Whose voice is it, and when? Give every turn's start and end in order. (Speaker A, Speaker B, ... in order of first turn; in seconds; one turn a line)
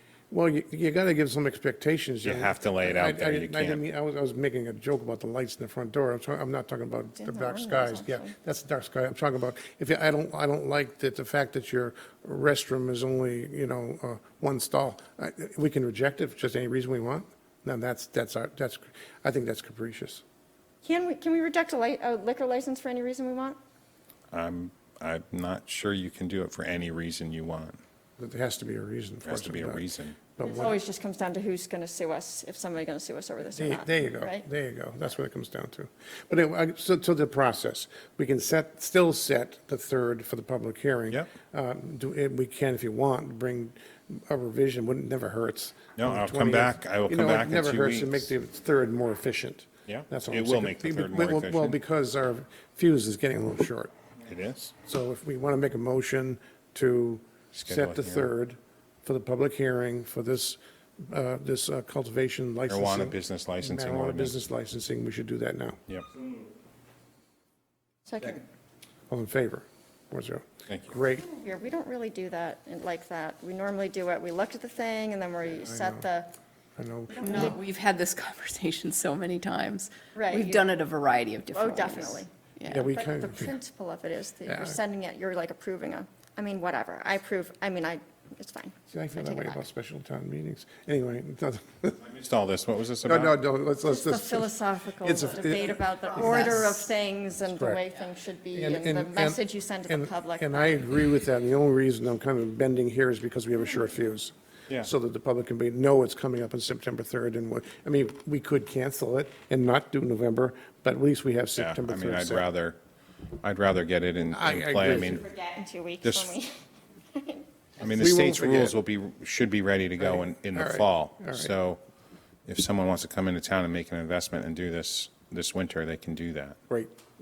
Speaker A: 0.3-20.2
Speaker B: 2.2-3.8
Speaker C: 7.2-8.3
Speaker C: 20.8-23.6
Speaker B: 24.3-27.8
Speaker A: 28.2-30.8
Speaker B: 29.2-30.2
Speaker C: 30.4-34.5
Speaker A: 33.5-53.9
Speaker B: 46.0-48.3
Speaker B: 49.9-51.8
Speaker B: 54.2-54.7
Speaker A: 54.9-65.8
Speaker B: 57.6-58.3
Speaker B: 62.7-64.4
Speaker C: 68.1-68.4
Speaker A: 69.1-71.2
Speaker B: 70.7-71.0
Speaker C: 71.2-76.3
Speaker A: 75.6-76.0
Speaker A: 76.8-77.5
Speaker C: 77.1-77.6
Speaker D: 77.2-82.9
Speaker C: 80.2-80.7
Speaker C: 81.5-82.3
Speaker A: 82.7-83.5
Speaker C: 82.8-89.6
Speaker A: 84.5-84.8
Speaker A: 88.9-92.0
Speaker B: 92.0-93.4
Speaker A: 93.0-96.9
Speaker C: 93.8-100.8
Speaker A: 97.5-97.8
Speaker A: 98.5-112.5
Speaker B: 111.6-112.8
Speaker B: 113.4-115.2
Speaker A: 114.3-115.2
Speaker C: 114.8-116.5
Speaker B: 116.0-116.3
Speaker C: 117.1-117.5
Speaker B: 117.8-121.8
Speaker A: 117.8-118.8
Speaker A: 120.0-121.5
Speaker B: 122.5-126.6